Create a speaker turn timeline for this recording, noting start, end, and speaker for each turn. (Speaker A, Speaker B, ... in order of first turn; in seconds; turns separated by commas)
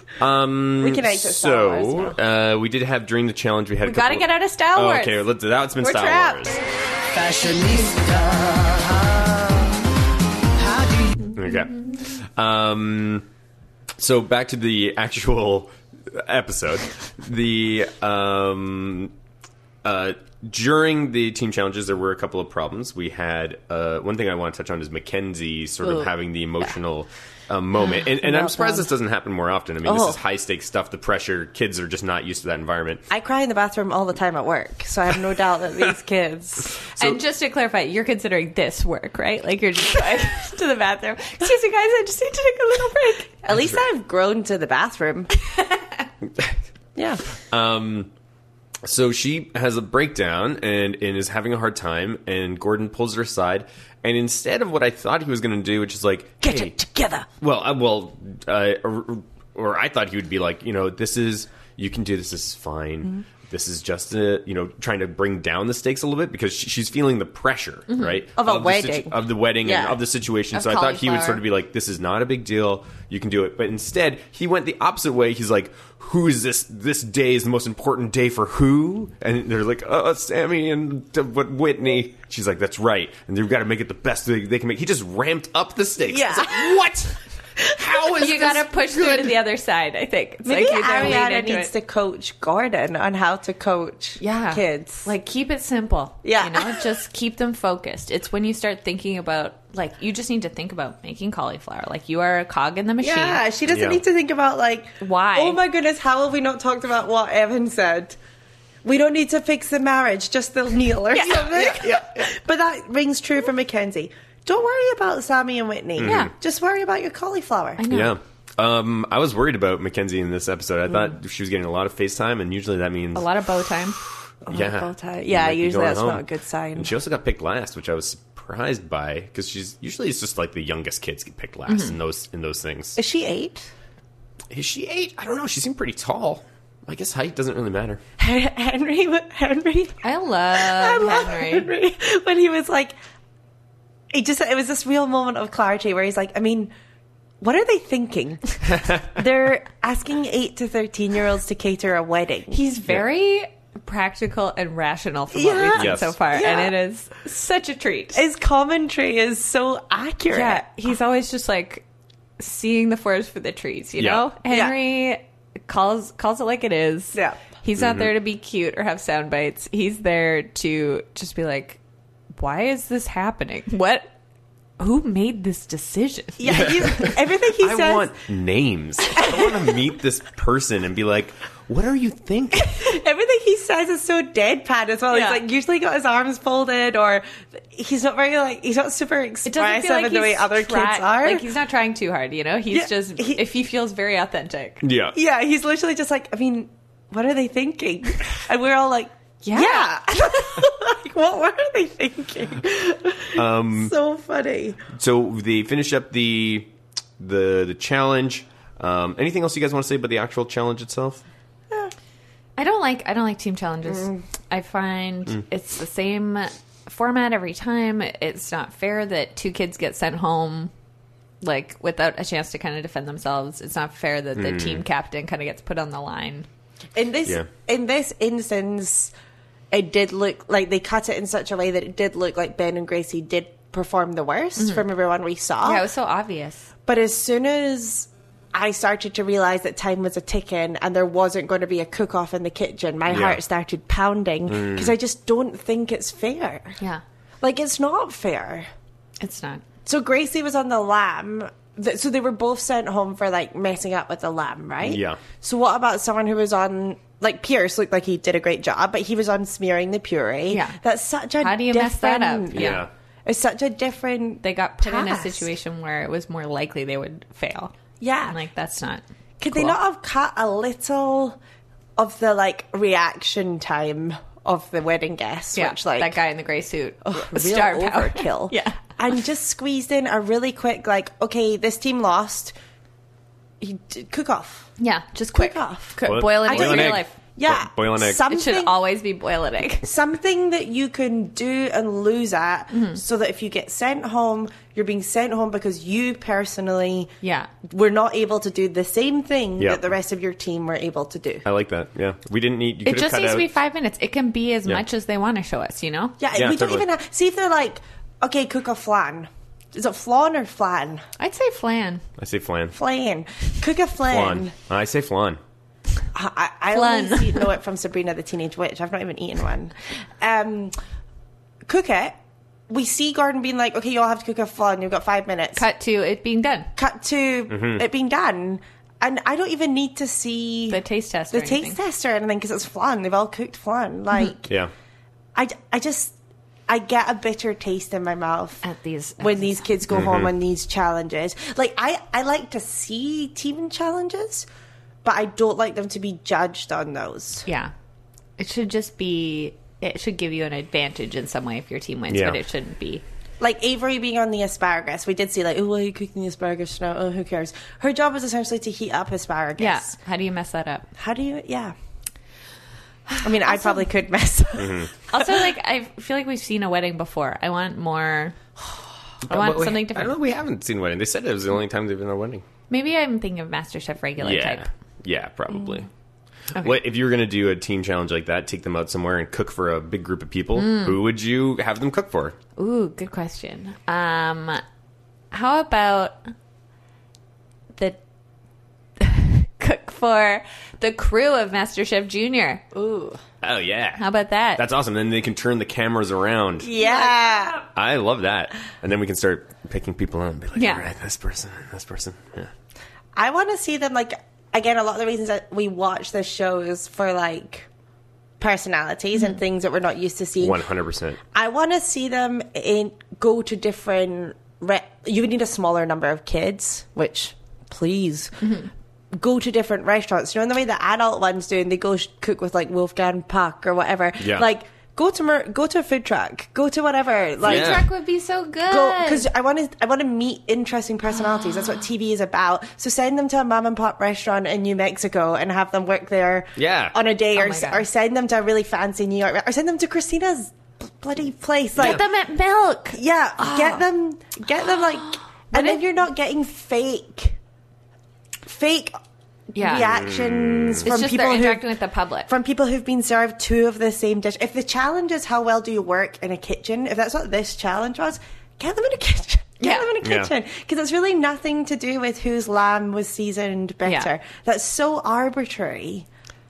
Speaker A: 0.2-6.6, Speaker B: 0.8-2.2, Speaker C: 3.8-5.2, Speaker C: 5.8-6.6, Speaker A: 11.3-13.3, Speaker A: 14.0-19.1, Speaker A: 19.8-33.0, Speaker B: 28.2-28.9, Speaker B: 29.9-30.2, Speaker B: 33.1-36.8, Speaker C: 37.0-43.4, Speaker B: 43.4-45.3, Speaker C: 45.5-45.8, Speaker B: 47.0-47.2, Speaker A: 47.5-48.1, Speaker A: 48.8-56.7, Speaker B: 56.4-57.3, Speaker A: 57.4-89.3, Speaker C: 67.9-68.2, Speaker B: 68.4-70.0, Speaker C: 70.5-71.4, Speaker B: 86.0-86.8, Speaker B: 88.0-88.3, Speaker C: 88.2-91.7, Speaker B: 90.5-95.1, Speaker C: 94.2-103.5, Speaker B: 96.2-96.8, Speaker B: 103.0-108.2, Speaker A: 103.7-104.0, Speaker C: 105.0-105.6, Speaker B: 108.8-117.8, Speaker C: 111.1-111.7, Speaker A: 111.3-112.2, Speaker A: 116.0-116.3, Speaker C: 116.0-116.3, Speaker C: 117.8-118.2, Speaker A: 117.9-123.3, Speaker C: 123.2-124.0, Speaker A: 124.0-133.0, Speaker B: 124.5-126.9, Speaker C: 131.7-131.9, Speaker B: 133.0-133.7, Speaker A: 134.5-138.0, Speaker B: 138.2-140.0, Speaker C: 140.0-141.7, Speaker B: 140.5-142.9, Speaker B: 144.1-146.7, Speaker B: 147.4-152.6, Speaker A: 148.7-149.1, Speaker C: 152.5-158.2, Speaker B: 155.3-156.8, Speaker A: 155.7-156.2, Speaker B: 158.1-160.7, Speaker C: 160.3-161.8, Speaker C: 162.4-171.8, Speaker A: 164.0-164.3, Speaker B: 164.5-164.8, Speaker B: 167.1-167.4, Speaker A: 167.8-168.1, Speaker C: 172.4-174.1, Speaker C: 174.8-177.1, Speaker B: 176.4-178.1, Speaker A: 176.5-182.8, Speaker B: 179.2-179.7, Speaker B: 182.7-191.5, Speaker C: 185.1-185.4, Speaker C: 189.4-194.8, Speaker B: 192.7-193.4, Speaker A: 194.8-195.2, Speaker B: 195.1-204.8, Speaker C: 199.4-200.3, Speaker A: 203.4-203.9, Speaker A: 204.9-206.7, Speaker A: 207.2-211.2, Speaker C: 212.6-220.7, Speaker B: 213.9-214.2, Speaker C: 221.4-226.5, Speaker A: 224.4-224.8, Speaker B: 226.9-229.1, Speaker B: 229.7-235.8, Speaker C: 234.6-234.9, Speaker C: 235.6-236.7, Speaker B: 236.9-246.8, Speaker A: 243.1-243.4, Speaker A: 244.5-244.9, Speaker B: 247.4-248.7, Speaker C: 249.2-249.7, Speaker B: 249.9-265.5, Speaker A: 254.8-255.2, Speaker C: 260.5-260.8, Speaker C: 261.4-262.9, Speaker A: 262.5-262.9, Speaker C: 264.4-269.0, Speaker B: 268.0-268.4, Speaker B: 269.4-271.4, Speaker B: 272.0-276.2, Speaker C: 275.5-278.9, Speaker B: 277.1-282.6, Speaker B: 283.6-284.7, Speaker C: 284.8-287.2, Speaker B: 285.3-288.8, Speaker A: 286.1-288.3, Speaker C: 288.2-289.9, Speaker B: 289.8-297.1, Speaker C: 292.7-293.0, Speaker C: 297.2-297.5, Speaker B: 297.7-301.4, Speaker A: 301.4-303.5, Speaker C: 302.9-306.2, Speaker B: 306.2-311.1, Speaker A: 306.4-306.9, Speaker C: 311.2-312.0, Speaker A: 312.2-312.8, Speaker B: 312.7-314.5, Speaker A: 314.1-315.4, Speaker B: 316.1-320.8, Speaker C: 316.7-317.5, Speaker B: 321.7-322.1, Speaker B: 322.7-325.6, Speaker C: 325.6-326.7, Speaker B: 326.8-330.8, Speaker A: 327.5-327.8, Speaker C: 330.7-331.8, Speaker B: 331.3-334.5, Speaker B: 335.4-336.1, Speaker B: 336.7-338.6, Speaker C: 338.6-339.7, Speaker B: 339.2-344.5, Speaker A: 339.9-340.3, Speaker B: 345.0-347.5, Speaker C: 347.5-347.7, Speaker C: 348.4-353.0, Speaker A: 352.1-352.4, Speaker B: 353.4-359.9, Speaker C: 359.6-360.9, Speaker B: 361.0-361.8, Speaker C: 363.1-363.9, Speaker B: 363.2-365.2, Speaker A: 364.6-364.9, Speaker C: 365.1-368.4, Speaker A: 369.2-372.4, Speaker C: 369.3-370.2, Speaker C: 372.7-374.7, Speaker A: 374.2-375.9, Speaker A: 376.5-382.4, Speaker C: 380.6-381.0, Speaker C: 382.6-384.6, Speaker C: 385.3-386.3, Speaker C: 389.0-392.9, Speaker B: 392.8-393.2, Speaker A: 393.4-396.7, Speaker C: 394.0-394.6, Speaker B: 396.6-397.6, Speaker C: 396.8-397.6, Speaker A: 397.7-402.5, Speaker C: 400.6-400.8, Speaker B: 403.1-407.7, Speaker B: 408.4-410.6, Speaker A: 410.4-411.2, Speaker B: 411.3-418.6, Speaker B: 419.1-427.9, Speaker A: 424.2-424.4, Speaker C: 427.4-429.3, Speaker A: 427.4-427.9, Speaker B: 428.7-442.0, Speaker A: 436.6-437.0, Speaker C: 437.4-437.9, Speaker C: 441.8-443.9, Speaker B: 442.9-447.4, Speaker C: 445.5-445.8, Speaker B: 448.4-448.9, Speaker B: 449.5-451.7, Speaker C: 449.5-449.9, Speaker A: 449.7-450.9, Speaker C: 450.8-452.3, Speaker B: 452.3-466.1, Speaker C: 459.6-459.9, Speaker A: 460.0-460.3, Speaker C: 463.9-464.1